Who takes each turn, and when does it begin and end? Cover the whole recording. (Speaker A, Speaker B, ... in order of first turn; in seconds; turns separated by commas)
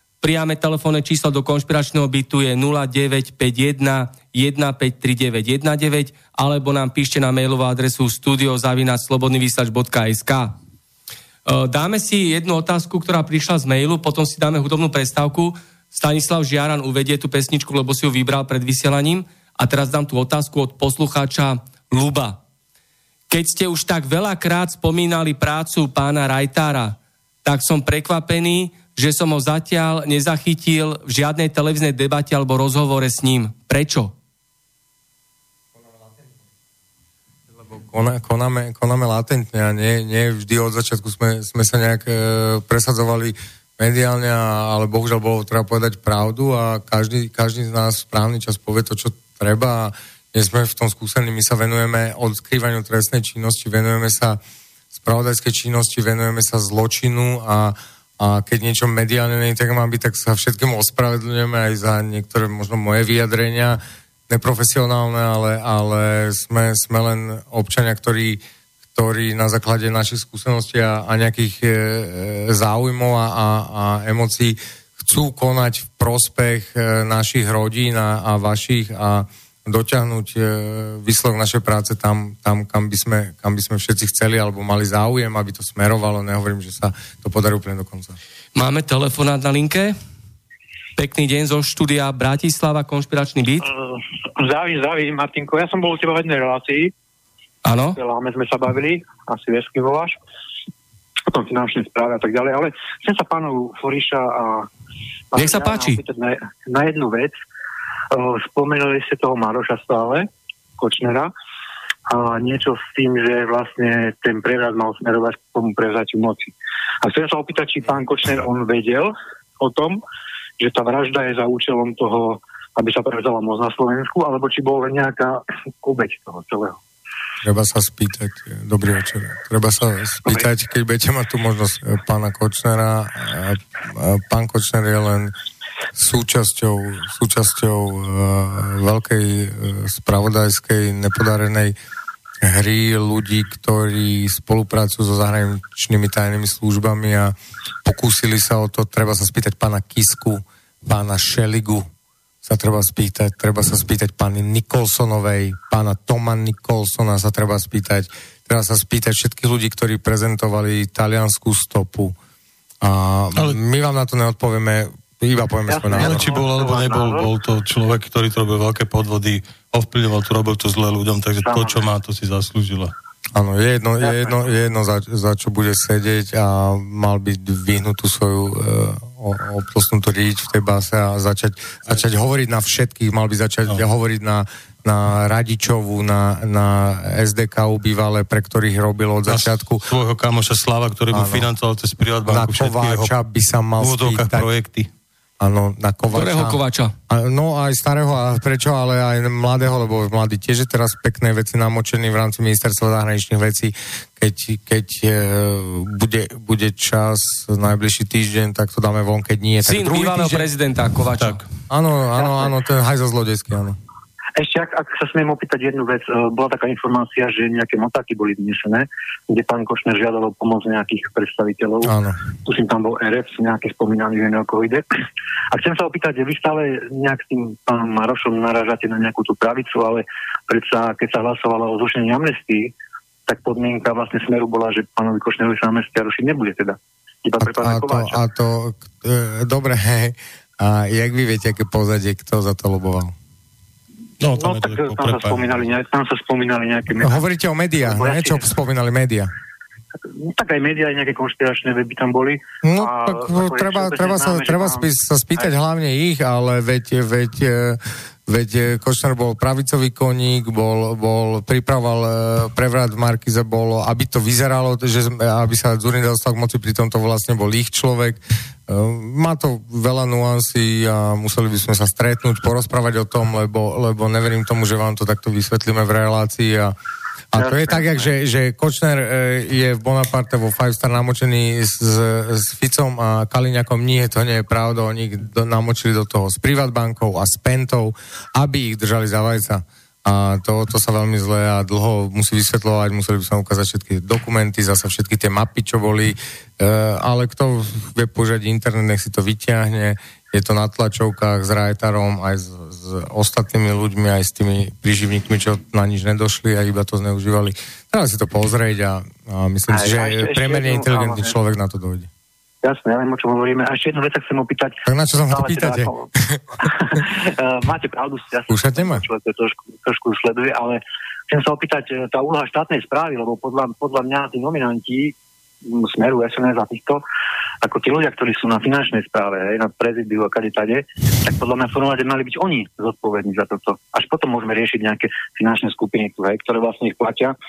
Speaker A: 0.2-10.5, Speaker A: 11.4-22.4, Speaker A: 23.3-34.1, Speaker B: 35.8-36.2, Speaker B: 37.5-54.4, Speaker B: 54.9-68.4, Speaker B: 68.9-88.2, Speaker A: 88.5-89.9, Speaker A: 91.0-93.7, Speaker C: 94.4-96.9, Speaker A: 97.6-98.0, Speaker C: 97.9-100.2, Speaker C: 101.3-104.7, Speaker C: 105.3-107.3, Speaker A: 105.3-106.0, Speaker C: 108.1-110.3, Speaker C: 110.8-111.3, Speaker C: 112.1-120.0, Speaker C: 120.6-126.8, Speaker B: 127.4-135.3, Speaker B: 135.9-141.8, Speaker B: 142.4-151.9, Speaker B: 152.4-162.2, Speaker B: 162.8-166.2, Speaker C: 165.7-167.3, Speaker D: 165.9-172.9, Speaker C: 171.4-171.8, Speaker B: 173.3-189.8, Speaker D: 189.3-193.1, Speaker B: 191.1-191.5, Speaker B: 192.3-194.5, Speaker D: 193.8-194.9, Speaker B: 195.4-210.4, Speaker A: 196.1-196.9, Speaker A: 209.7-211.4, Speaker B: 211.7-213.8, Speaker C: 214.4-221.9, Speaker B: 221.8-222.2, Speaker C: 222.4-224.8, Speaker C: 225.5-232.7, Speaker C: 233.3-238.2, Speaker B: 237.4-243.1, Speaker D: 244.2-245.6, Speaker C: 244.3-247.2, Speaker B: 247.0-249.3, Speaker C: 247.8-248.4, Speaker C: 250.2-254.9, Speaker B: 252.6-276.7, Speaker B: 277.3-312.1, Speaker C: 277.4-278.1, Speaker C: 309.7-311.3, Speaker C: 312.6-316.1, Speaker B: 314.9-316.4, Speaker C: 316.6-325.1, Speaker B: 318.5-319.0, Speaker C: 325.6-327.0, Speaker C: 327.6-337.4